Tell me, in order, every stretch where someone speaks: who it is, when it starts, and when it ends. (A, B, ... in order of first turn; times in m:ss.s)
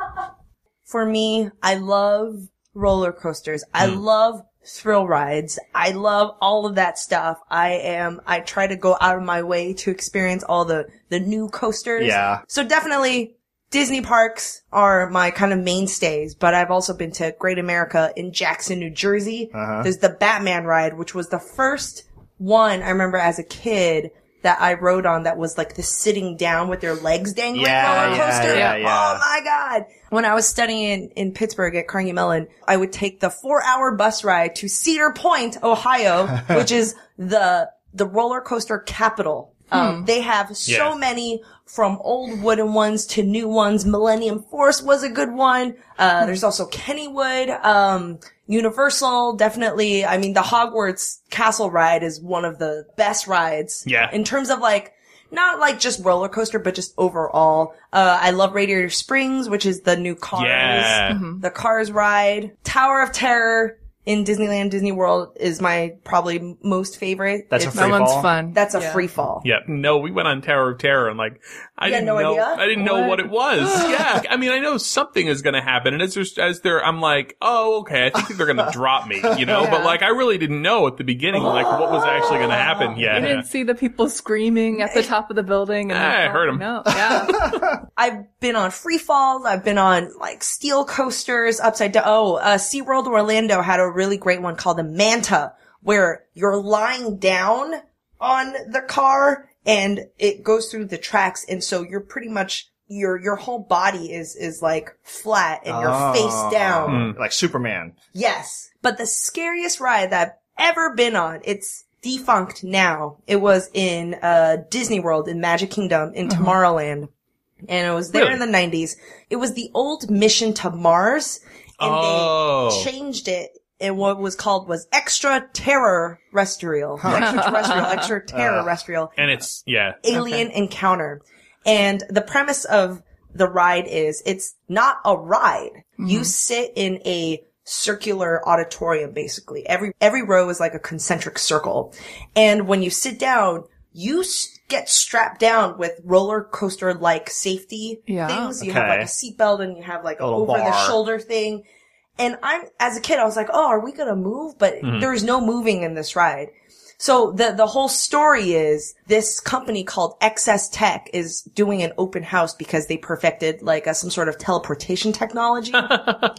0:00.9-1:09.4 A
0:12.0-0:12.4 B
0:19.5-0:19.9 B
0:27.5-0:29.2 B
0:28.0-0:28.8 C
0:39.7-0:40.0 C
0:40.7-0:40.9 D
0:53.8-0:54.1 D
1:00.3-1:01.2 D
1:01.1-1:01.4 C
1:07.5-1:08.3 B
1:07.7-1:09.0 C
1:09.4-1:23.4 D
1:11.8-1:12.7 A
1:12.8-1:14.1 C
1:19.2-1:19.6 B
1:19.5-1:20.0 C
1:21.4-1:22.6 A
1:22.4-1:27.7 C
1:24.8-1:25.1 A
1:25.9-1:26.9 D
1:27.0-1:27.8 B
1:28.0-1:47.1 A
1:45.7-1:47.9 B
1:46.9-1:47.2 D
1:48.1-1:57.1 A
1:57.7-2:09.1 A
1:58.1-1:58.4 D
2:01.8-2:02.9 D
2:07.0-2:07.7 B
2:07.2-2:07.8 C
2:08.3-2:08.8 B
2:09.2-2:10.0 D
2:10.0-2:31.6 A
2:10.1-2:10.4 C
2:16.0-2:16.3 C
2:28.1-2:28.5 C
2:28.6-2:29.1 B
2:30.2-2:31.0 B
2:32.2-2:46.0 A
2:34.8-2:35.1 D
2:45.8-2:46.3 D